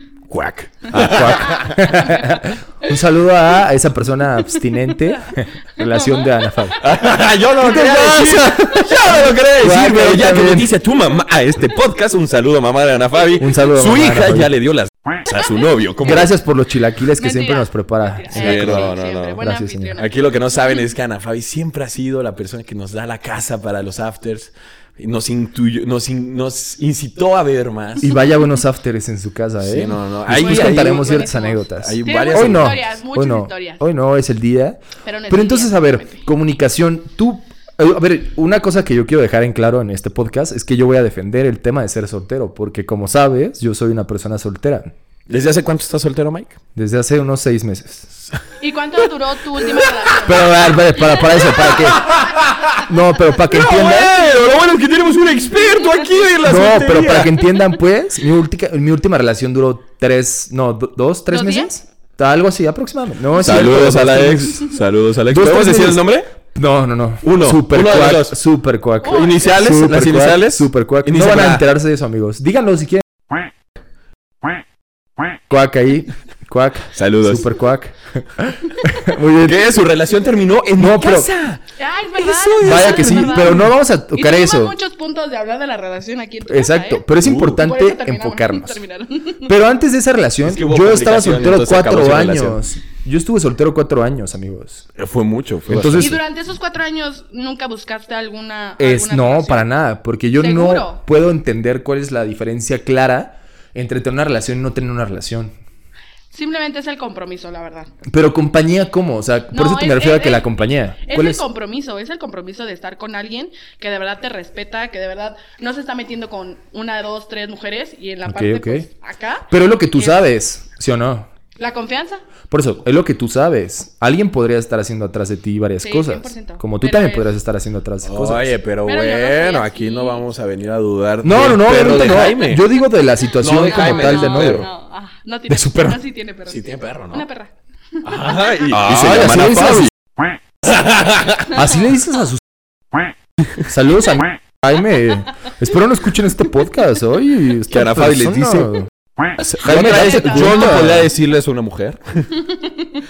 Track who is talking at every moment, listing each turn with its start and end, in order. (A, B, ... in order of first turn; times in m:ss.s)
0:00.3-0:01.7 A
0:00.9-0:06.8 B
0:06.8-0:16.3 A
0:07.6-0:10.7 B
0:13.4-0:14.5 B
0:16.0-0:20.0 B
0:17.2-0:20.1 C
0:18.3-0:19.4 A
0:20.0-0:28.1 A
0:28.0-0:44.9 B
0:29.6-0:31.3 A
0:30.3-0:33.8 C
0:31.8-0:32.8 A
0:35.0-0:36.2 C
0:45.3-0:46.6 A
0:46.7-0:48.1 B
0:48.6-0:50.5 C
0:50.2-0:52.1 B
0:51.5-0:52.8 A
0:52.9-0:54.3 B
0:53.5-0:57.4 A
0:56.4-1:04.7 B
1:01.3-1:01.7 C
1:03.4-1:06.3 A
1:05.3-1:13.0 B
1:07.2-1:08.4 A
1:09.0-1:09.5 C
1:09.1-1:11.6 A
1:15.5-1:19.7 B
1:16.9-1:17.5 A
1:19.4-1:21.6 A
1:20.8-1:21.3 B
1:21.8-1:27.0 C
1:22.2-1:23.7 A
1:22.6-1:24.7 B
1:26.5-1:28.8 B
1:27.2-1:27.6 A
1:27.6-1:29.5 C
1:29.4-1:34.9 B
1:30.4-1:32.6 A
1:35.0-1:36.2 A
1:35.7-1:36.2 B
1:36.0-1:39.7 C
1:38.8-1:45.5 B
1:40.4-1:41.0 C
1:46.3-1:47.9 C
1:48.1-1:51.4 B
1:49.5-1:50.5 C
1:51.0-2:00.2 C
1:58.2-1:58.9 B
1:59.5-2:01.3 B
2:01.6-2:02.2 C
2:02.5-2:08.5 B
2:05.8-2:07.3 C
2:08.0-2:12.6 A
2:08.8-2:10.2 C
2:11.2-2:14.7 B
2:13.4-2:14.7 A
2:13.7-2:18.7 C
2:15.5-2:16.0 B
2:16.5-2:17.2 A
2:18.0-2:19.9 A
2:18.7-2:19.9 B
2:20.6-2:21.5 A
2:21.5-2:22.4 B
2:23.6-2:28.9 B
2:27.7-2:28.7 A
2:29.4-2:32.4 A
2:29.6-2:31.1 B
2:29.8-2:30.8 C